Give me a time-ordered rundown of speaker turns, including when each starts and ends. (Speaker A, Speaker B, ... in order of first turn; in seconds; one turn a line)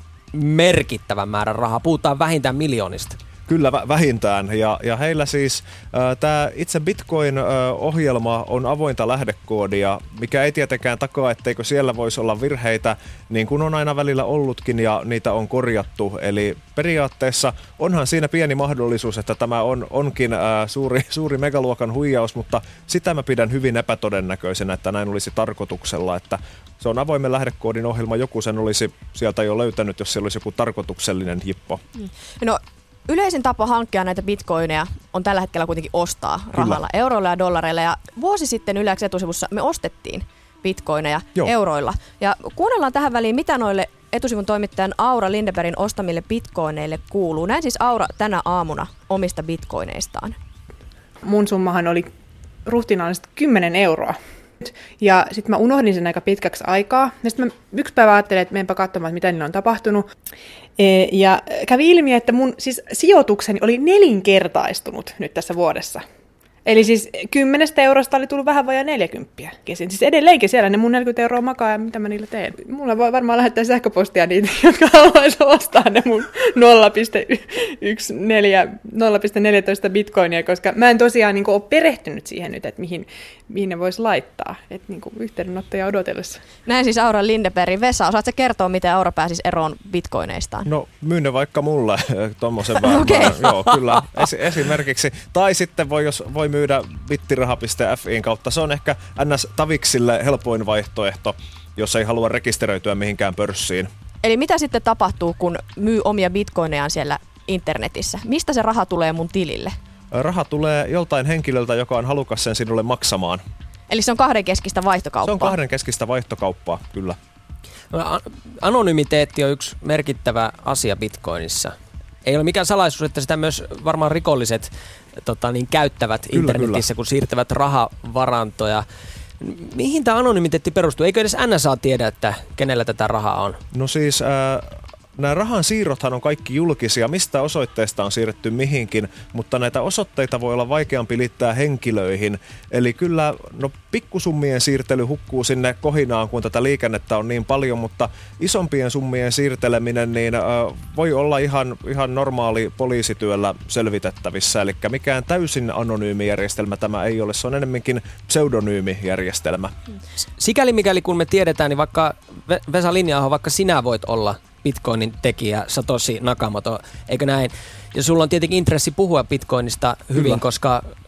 Speaker A: 0.3-3.2
Speaker B: 3.5-31.8
Speaker C: 32.4-50.3
Speaker B: 36.5-36.8
Speaker D: 51.2-52.1
Speaker D: 52.6-60.1
Speaker D: 60.8-66.0
Speaker D: 66.6-86.4
Speaker C: 86.6-90.7
Speaker B: 90.7-103.9
Speaker C: 92.8-93.5
Speaker C: 104.2-109.7
Speaker B: 110.1-113.4
Speaker C: 113.9-115.6
Speaker B: 115.2-117.2
Speaker A: 117.9-121.7
Speaker A: 122.2-128.8
Speaker B: 126.3-126.8
Speaker A: 129.4-133.6
Speaker B: 133.7-159.7
Speaker A: 160.4-170.8
Speaker B: 170.1-170.4